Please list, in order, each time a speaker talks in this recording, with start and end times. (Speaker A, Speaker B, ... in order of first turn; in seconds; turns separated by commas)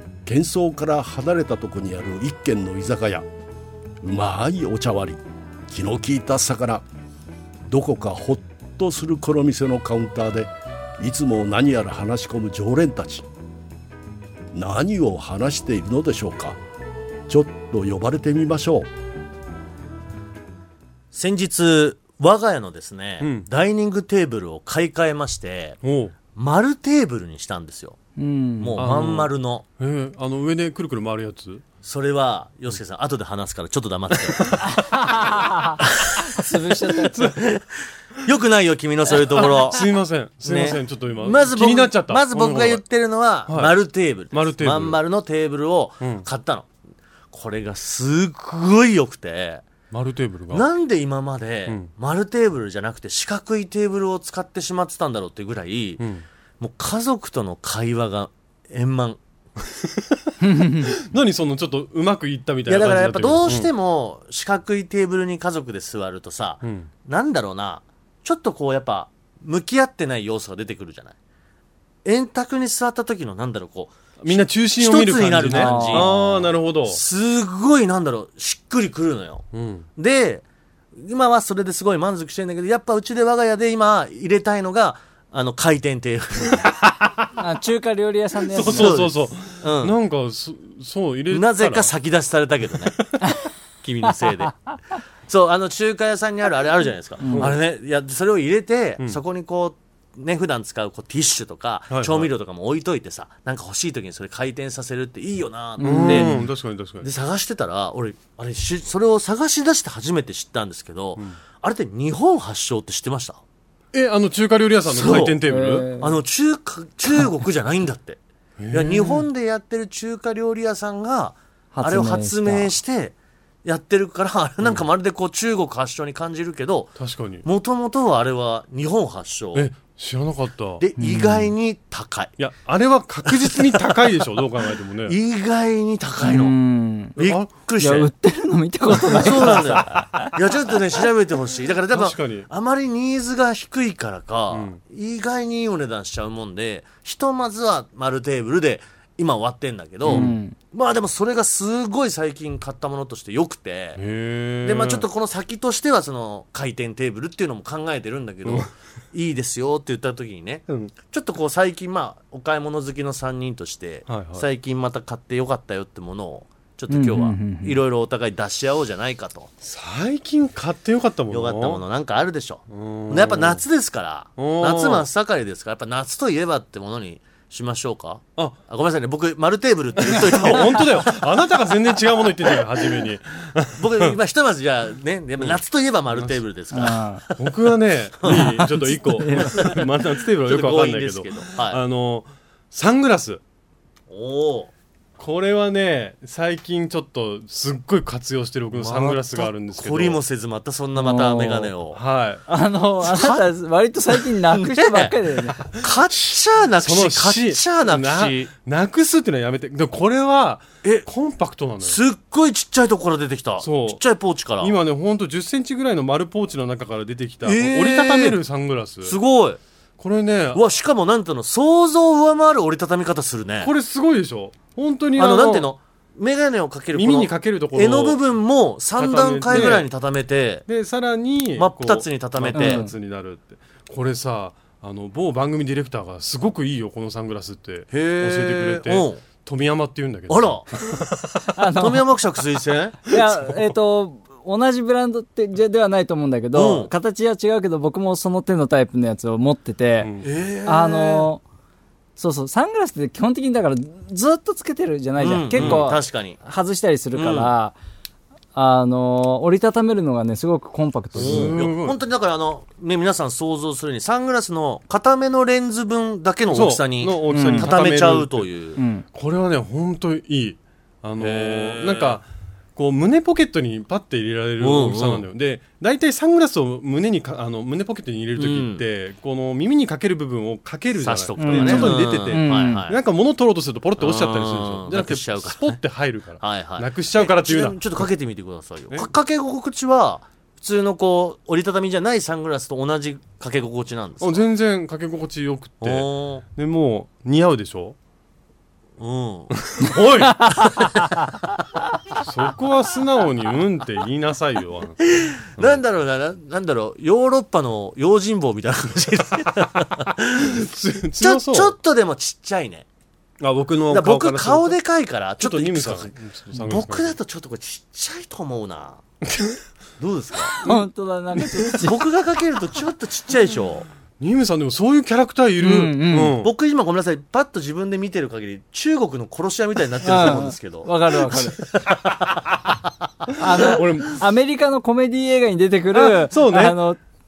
Speaker A: 0.2-3.3, Speaker A: 4.0-6.8, Speaker A: 7.7-13.2, Speaker A: 14.5-16.6, Speaker A: 17.3-18.9, Speaker B: 21.1-25.8, Speaker C: 23.2-23.5, Speaker C: 25.8-26.1, Speaker B: 26.3-28.0, Speaker D: 28.2-28.8, Speaker B: 28.6-29.6, Speaker C: 28.8-31.6, Speaker B: 31.8-34.6, Speaker C: 34.4-34.8, Speaker D: 34.8-37.3, Speaker B: 35.9-36.3, Speaker B: 37.1-37.7, Speaker B: 38.2-39.9, Speaker C: 39.3-42.8, Speaker B: 40.4-46.7, Speaker C: 43.5-43.7, Speaker C: 44.3-45.0, Speaker B: 47.3-49.7, Speaker C: 49.9-50.6, Speaker B: 50.5-56.0, Speaker C: 56.0-56.2, Speaker B: 56.6-59.2, Speaker C: 59.8-63.7, Speaker D: 60.4-60.9, Speaker B: 62.7-71.1, Speaker B: 72.0-76.1, Speaker C: 74.2-77.0, Speaker D: 75.4-76.2, Speaker B: 76.8-80.4, Speaker C: 79.5-79.8, Speaker B: 81.0-86.7, Speaker D: 87.4-89.0, Speaker C: 88.5-91.9, Speaker B: 88.6-90.0, Speaker B: 91.3-93.1, Speaker B: 93.8-94.7, Speaker B: 95.3-106.4, Speaker D: 97.2-97.5, Speaker C: 101.9-102.3, Speaker D: 105.8-106.3, Speaker C: 105.8-107.1, Speaker B: 107.0-113.4, Speaker C: 113.9-115.9, Speaker B: 114.9-115.4, Speaker D: 115.5-116.2, Speaker B: 116.0-118.2, Speaker C: 118.6-119.2, Speaker B: 118.7-129.7, Speaker D: 121.7-122.7, Speaker C: 127.0-127.4, Speaker C: 129.5-130.8, Speaker B: 130.8-132.4, Speaker D: 131.0-131.5, Speaker C: 132.4-135.2, Speaker B: 133.2-134.3, Speaker B: 135.1-136.5, Speaker D: 136.2-137.2, Speaker C: 137.2-137.5, Speaker B: 137.2-138.1, Speaker D: 137.8-140.3, Speaker B: 139.1-154.0, Speaker C: 139.2-140.3, Speaker C: 141.9-142.5, Speaker C: 144.5-144.8, Speaker C: 150.0-150.3, Speaker D: 150.0-150.6, Speaker C: 154.0-155.1, Speaker B: 154.6-169.5, Speaker C: 158.4-158.7, Speaker C: 164.1-164.4, Speaker D: 166.9-167.8, Speaker C: 169.6-171.8, Speaker B: 171.3-181.7, Speaker C: 172.7-173.6, Speaker C: 174.4-175.1, Speaker C: 180.0-184.1, Speaker B: 182.4-183.1, Speaker B: 183.8-191.8, Speaker D: 186.7-187.2, Speaker C: 187.4-193.4, Speaker D: 188.2-189.8, Speaker B: 194.1-194.7, Speaker C: 195.2-200.2, Speaker B: 198.7-202.0, Speaker D: 201.0-201.7, Speaker C: 201.9-202.4, Speaker D: 202.5-205.7, Speaker B: 203.0-203.5, Speaker B: 204.2-208.5, Speaker C: 206.8-212.0, Speaker B: 211.8-214.7, Speaker C: 213.6-214.0, Speaker C: 214.6-219.2, Speaker B: 217.4-218.4, Speaker B: 219.0-219.6, Speaker C: 220.0-220.6, Speaker B: 220.5-223.7, Speaker C: 223.6-225.7, Speaker B: 225.2-230.7, Speaker C: 226.9-228.2, Speaker C: 229.0-229.9, Speaker D: 229.5-229.8, Speaker C: 230.7-241.0, Speaker B: 231.6-232.9, Speaker D: 232.5-232.9, Speaker B: 237.9-239.2, Speaker B: 240.3-240.7, Speaker D: 241.6-242.1, Speaker B: 241.8-243.1, Speaker D: 243.1-250.1, Speaker B: 246.5-246.9, Speaker C: 250.0-250.2, Speaker B: 250.2-251.3, Speaker D: 250.6-251.4, Speaker D: 252.2-257.7, Speaker B: 255.2-256.4, Speaker C: 255.6-255.8, Speaker B: 257.1-257.5, Speaker D: 258.5-261.6, Speaker C: 261.1-262.0, Speaker B: 261.1-268.8, Speaker C: 266.5-268.5, Speaker D: 267.3-267.7, Speaker D: 268.8-269.1, Speaker C: 269.1-287.8, Speaker B: 271.2-272.2, Speaker B: 274.6-275.2, Speaker B: 278.4-278.8, Speaker B: 281.0-283.0, Speaker D: 281.4-282.9, Speaker B: 284.0-285.8, Speaker B: 286.4-294.4, Speaker C: 294.2-297.9, Speaker B: 295.8-296.4, Speaker B: 299.0-301.1, Speaker C: 299.6-300.5, Speaker C: 302.2-305.0, Speaker B: 305.0-310.6, Speaker C: 310.4-311.7, Speaker B: 311.2-312.9, Speaker C: 313.4-314.8, Speaker B: 313.9-316.1, Speaker C: 315.4-317.1, Speaker B: 316.6-319.0, Speaker C: 319.3-319.6, Speaker B: 320.0-320.6, Speaker D: 320.6-322.0, Speaker C: 321.4-321.8, Speaker B: 321.8-323.9, Speaker C: 324.2-326.5, Speaker D: 325.6-326.4, Speaker B: 326.4-331.7, Speaker D: 330.0-331.6, Speaker D: 333.4-337.0, Speaker C: 333.6-334.1, Speaker C: 335.9-336.8